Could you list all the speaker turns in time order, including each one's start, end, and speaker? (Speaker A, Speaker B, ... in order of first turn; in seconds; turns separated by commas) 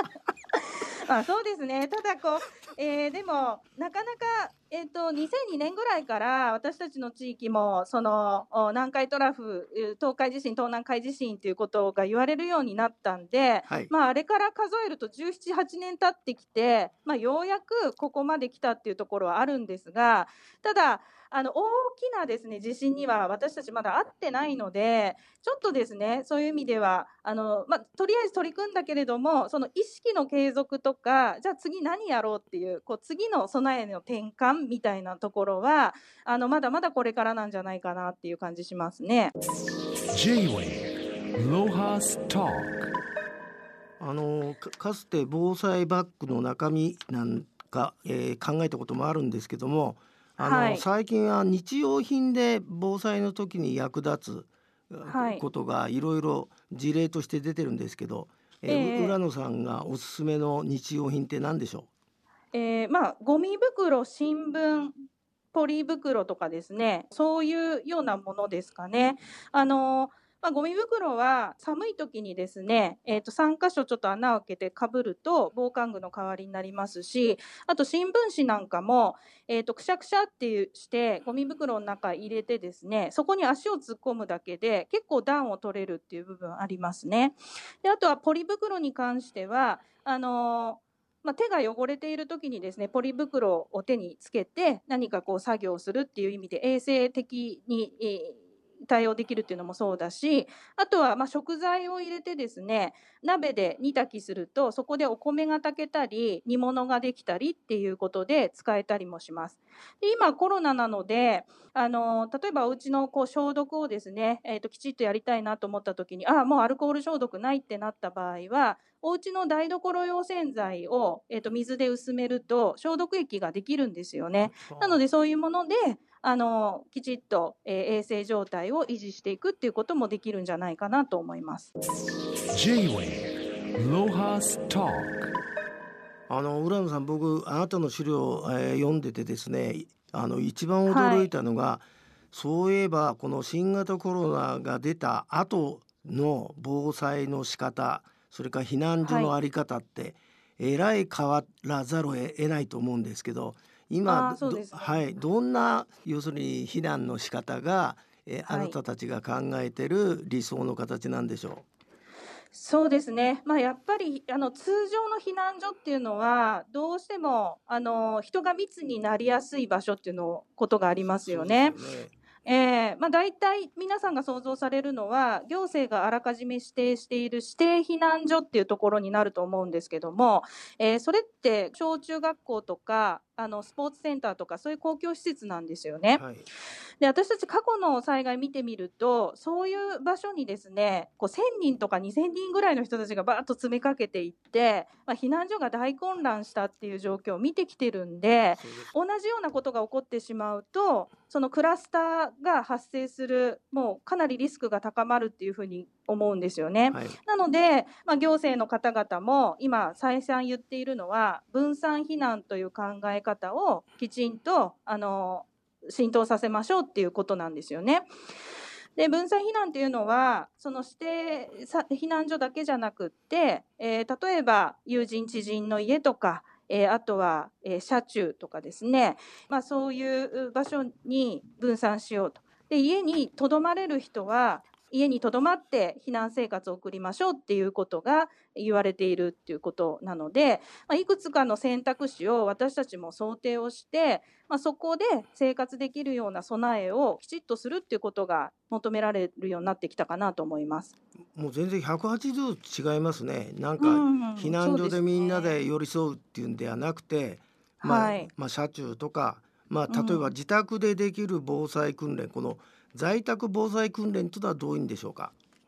Speaker A: 1.0-39.3, Speaker B: 40.1-42.8, Speaker C: 44.0-61.9, Speaker A: 50.4-50.9, Speaker A: 55.0-55.4, Speaker A: 58.7-59.2, Speaker A: 62.5-64.9, Speaker A: 65.5-131.7, Speaker C: 124.5-125.0, Speaker B: 132.5-135.2, Speaker C: 136.3-161.7, Speaker A: 140.9-141.3, Speaker A: 149.0-149.3, Speaker A: 154.1-155.0, Speaker A: 158.5-158.8, Speaker A: 162.5-171.8, Speaker C: 171.0-172.2, Speaker A: 172.4-186.2, Speaker C: 186.2-186.4, Speaker A: 187.0-218.1, Speaker C: 198.6-198.9, Speaker C: 206.9-207.2, Speaker A: 218.9-250.9, Speaker C: 251.3-265.3, Speaker A: 253.8-255.5, Speaker A: 257.8-258.3, Speaker A: 259.9-260.3